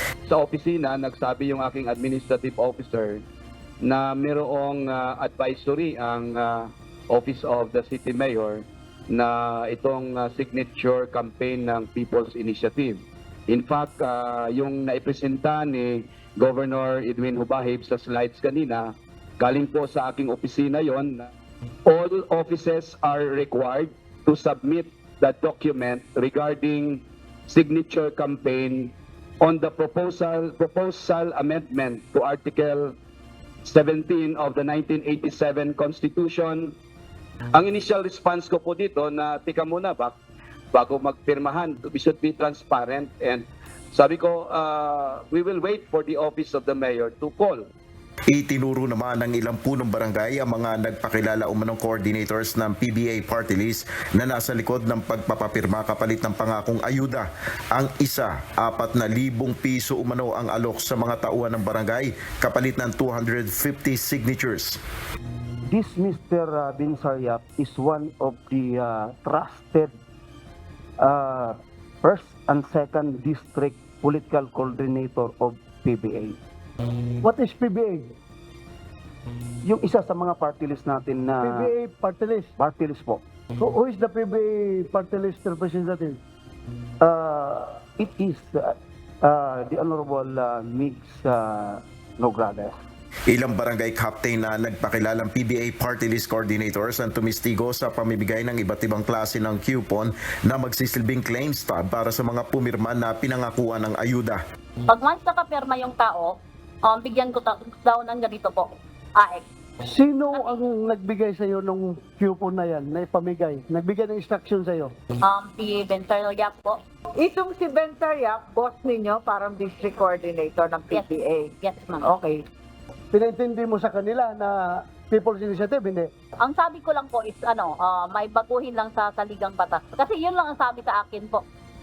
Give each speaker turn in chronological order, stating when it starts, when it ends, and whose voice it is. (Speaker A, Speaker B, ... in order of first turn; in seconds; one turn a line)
Speaker A: 0.2-3.2
Speaker A: 3.8-21.3
Speaker A: 21.9-33.0
Speaker A: 33.6-36.7
Speaker A: 37.5-40.1
Speaker A: 40.7-47.7
Speaker B: 48.3-64.8
Speaker C: 65.7-69.9
Speaker C: 71.0-76.4
Speaker D: 77.2-78.1
Speaker C: 79.6-81.7
Speaker D: 81.4-82.5
Speaker C: 82.6-83.2
Speaker D: 83.6-86.2
Speaker C: 87.0-92.8
Speaker B: 93.3-104.4
Speaker E: 104.9-106.3
Speaker E: 106.8-109.4
Speaker D: 109.8-114.9
Speaker E: 115.2-116.8
Speaker F: 117.2-122.4
Speaker E: 120.9-122.2
Speaker D: 123.1-126.1
Speaker E: 126.4-131.4